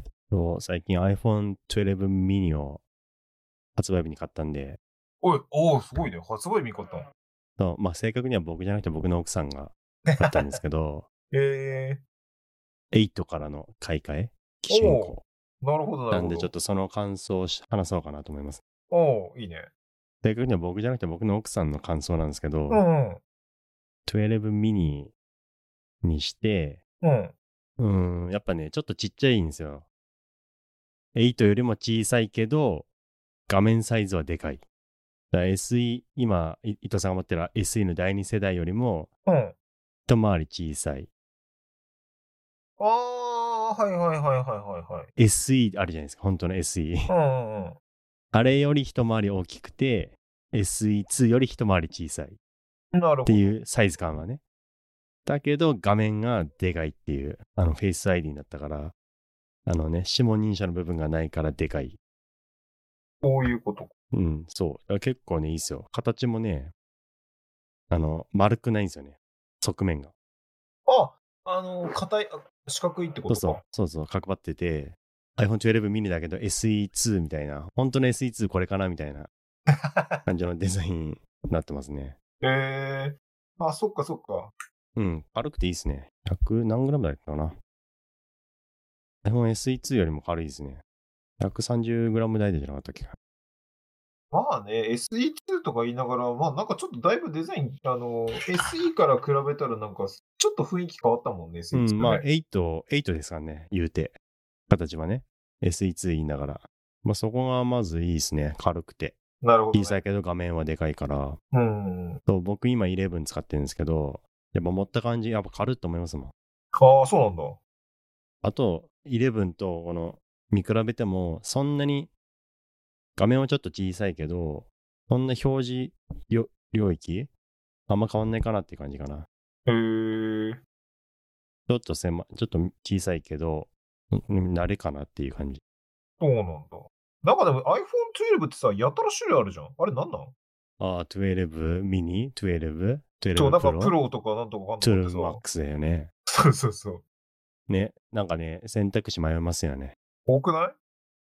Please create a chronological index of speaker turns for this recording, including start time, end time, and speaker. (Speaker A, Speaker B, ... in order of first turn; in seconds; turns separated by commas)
Speaker A: 0.3-2.8, Speaker A: 3.8-4.8, Speaker B: 5.2-7.1, Speaker A: 7.6-11.1, Speaker B: 10.1-10.4, Speaker B: 11.3-12.0, Speaker A: 12.9-15.2, Speaker B: 14.7-16.5, Speaker A: 16.1-18.6, Speaker B: 18.9-19.7, Speaker A: 20.2-22.8, Speaker B: 22.7-23.2, Speaker A: 24.1-25.1, Speaker A: 26.0-26.8, Speaker B: 27.0-27.3, Speaker A: 27.8-29.9, Speaker A: 31.1-32.9, Speaker A: 33.5-34.6, Speaker A: 35.3-39.1, Speaker B: 39.3-39.5, Speaker A: 40.1-41.1, Speaker B: 42.8-45.1, Speaker A: 45.2-47.1, Speaker B: 47.1-47.8, Speaker A: 48.3-52.4, Speaker B: 52.9-53.5, Speaker A: 53.3-54.4, Speaker A: 55.2-58.9, Speaker A: 59.7-62.0, Speaker B: 63.2-63.9, Speaker A: 64.1-66.7, Speaker A: 67.9-70.1, Speaker B: 70.9-73.6, Speaker A: 73.3-79.3, Speaker B: 79.7-80.2, Speaker A: 80.3-82.2, Speaker B: 82.4-84.5, Speaker A: 85.0-87.6, Speaker A: 89.2-90.8, Speaker A: 91.4-93.2, Speaker B: 94.3-102.2, Speaker A: 101.7-104.2, Speaker A: 104.7-109.2, Speaker B: 109.4-110.0, Speaker A: 109.7-111.4, Speaker B: 111.5-112.2, Speaker A: 112.3-116.3, Speaker B: 116.8-117.6, Speaker A: 118.4-122.1, Speaker A: 123.2-127.3, Speaker A: 127.9-129.3, Speaker B: 129.7-130.6, Speaker A: 131.7-135.6, Speaker B: 136.2-140.3, Speaker A: 140.8-144.0, Speaker B: 143.3-145.4, Speaker A: 144.8-146.1, Speaker B: 146.3-147.0, Speaker A: 147.7-149.9, Speaker B: 150.3-150.8